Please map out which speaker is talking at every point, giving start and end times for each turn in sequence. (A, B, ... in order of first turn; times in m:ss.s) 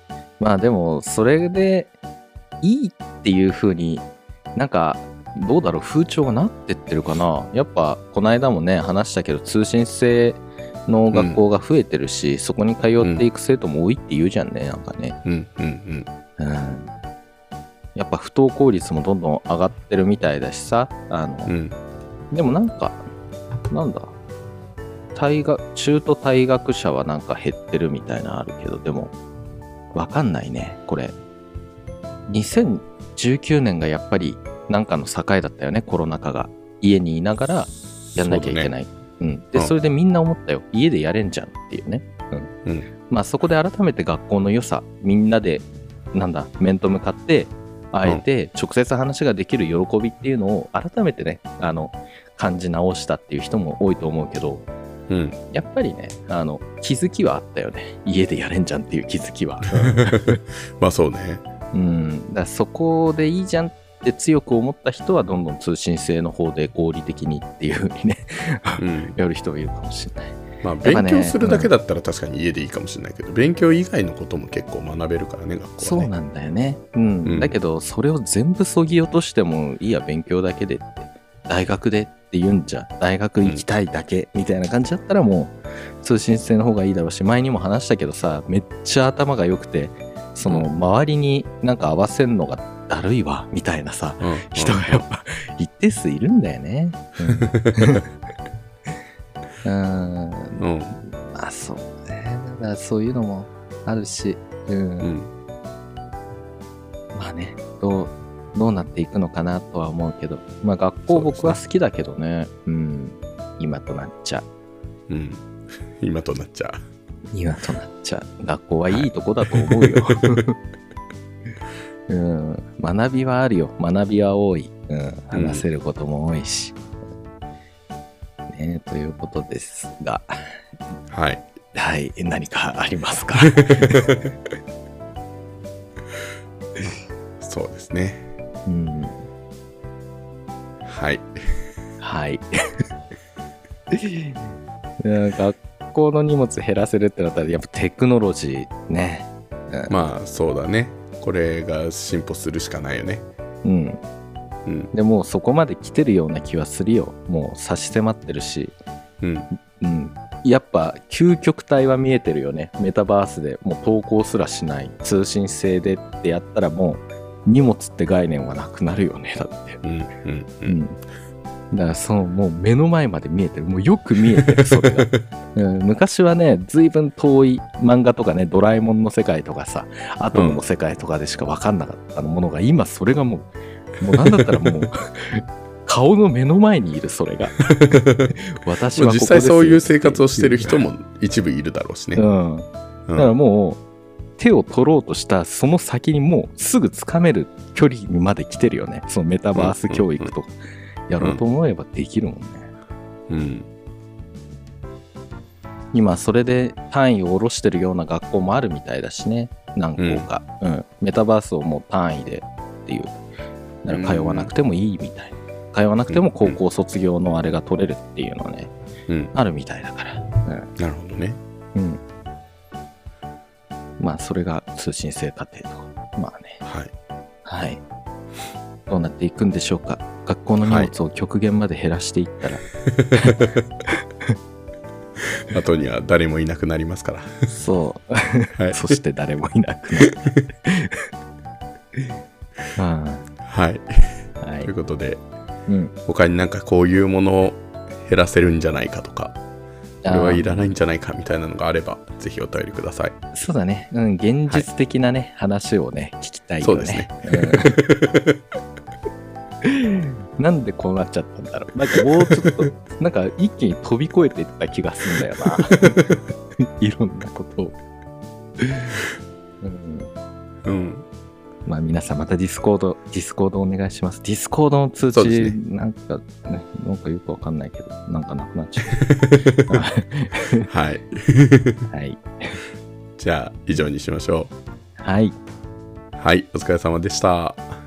0:00.4-0:01.9 A
0:02.6-0:04.0 A
0:04.6-0:15.2 A
0:11.1-0:11.4 B
0:13.0-0:13.3 B
0:15.2-0:16.1 B
0:16.4-0:16.9 A
0:18.0-0:21.5 A
0:21.5-0:21.8 B
0:22.3-0:23.0 A
0:23.7-0:24.1 A
0:25.1-0:29.1 A
0:29.9-0:31.2 A
0:32.3-0:42.5 A
0:38.1-0:38.7 B
0:43.1-0:54.6 A
0:55.1-0:55.4 B
0:55.5-1:00.4 A
0:59.7-1:01.4 B
1:01.7-1:11.7 A
1:08.8-1:09.2 B
1:10.6-1:16.1 B
1:15.8-1:38.1 A
1:17.3-1:17.6 B
1:34.2-1:35.0 B
1:37.3-1:38.0 B
1:39.6-1:45.1 A
1:40.6-1:41.0 B
1:45.0-1:45.3 B
1:47.1-1:54.4 A
1:51.1-1:51.6 B
1:55.1-1:56.8 B
1:57.3-2:00.6 A
1:58.9-2:00.4 B
2:02.1-2:06.8 A
2:05.3-2:05.6 B
2:08.5-2:10.3 A
2:11.1-2:11.5 B
2:11.7-2:14.1 A
2:13.4-2:14.3 B
2:17.4-2:18.3 B
2:18.7-2:19.2 A
2:20.9-2:21.4 B
2:22.0-2:22.5 A
2:23.9-2:24.4 A
2:25.0-2:30.1 A
2:29.9-2:33.3 B
2:33.6-2:34.0 A
2:34.6-2:34.9 B
2:34.9-2:38.8 A
2:39.2-2:39.5 B
2:39.8-2:49.8 A
2:49.8-2:50.8 B
2:50.7-2:51.0 A
2:51.7-3:03.5 A
2:54.4-2:55.2 B
3:00.3-3:00.6 B
3:04.0-3:07.6 A
3:04.0-3:04.9 B
3:07.6-3:08.4 B
3:08.3-3:10.9 A
3:09.0-3:12.2 B
3:12.2-3:13.8 A
3:14.4-3:22.7 A
3:19.6-3:20.3 B
3:23.3-3:23.7 B
3:25.9-3:33.2 A
3:30.0-3:30.3 B
3:33.8-3:38.7 A
3:33.9-3:34.5 B
3:36.1-3:36.6 B
3:39.1-3:39.3 B
3:39.3-3:40.7 A
3:40.8-3:41.4 B
3:41.8-3:42.0 A
3:44.0-3:46.6 A
3:46.6-3:46.9 B
3:47.4-3:47.8 A
3:48.9-3:53.4 A
3:50.6-3:50.9 B
3:52.9-3:53.6 B
3:53.9-3:54.3 A
3:55.4-3:57.5 B
3:57.5-4:01.1 A
3:58.6-3:59.0 B
4:00.0-4:00.4 B
4:02.8-4:03.3 A
4:03.4-4:05.2 B
4:04.4-4:04.7 A
4:06.1-4:09.4 B
4:10.0-4:10.7 A
4:10.1-4:13.2 B
4:13.3-4:17.8 A
4:16.6-4:18.4 B
4:19.6-4:27.8 A
4:22.2-4:22.5 B
4:25.6-4:25.9 B
4:28.6-4:29.0 A
4:29.6-4:30.1 A
4:30.6-4:31.1 B
4:31.7-4:39.0 A
4:35.1-4:35.6 B
4:38.9-4:39.8 B
4:39.7-4:40.7 A
4:40.7-4:41.9 B
4:41.9-4:42.6 A
4:43.2-4:44.5 B
4:45.0-4:45.4 A
4:46.2-4:47.7 B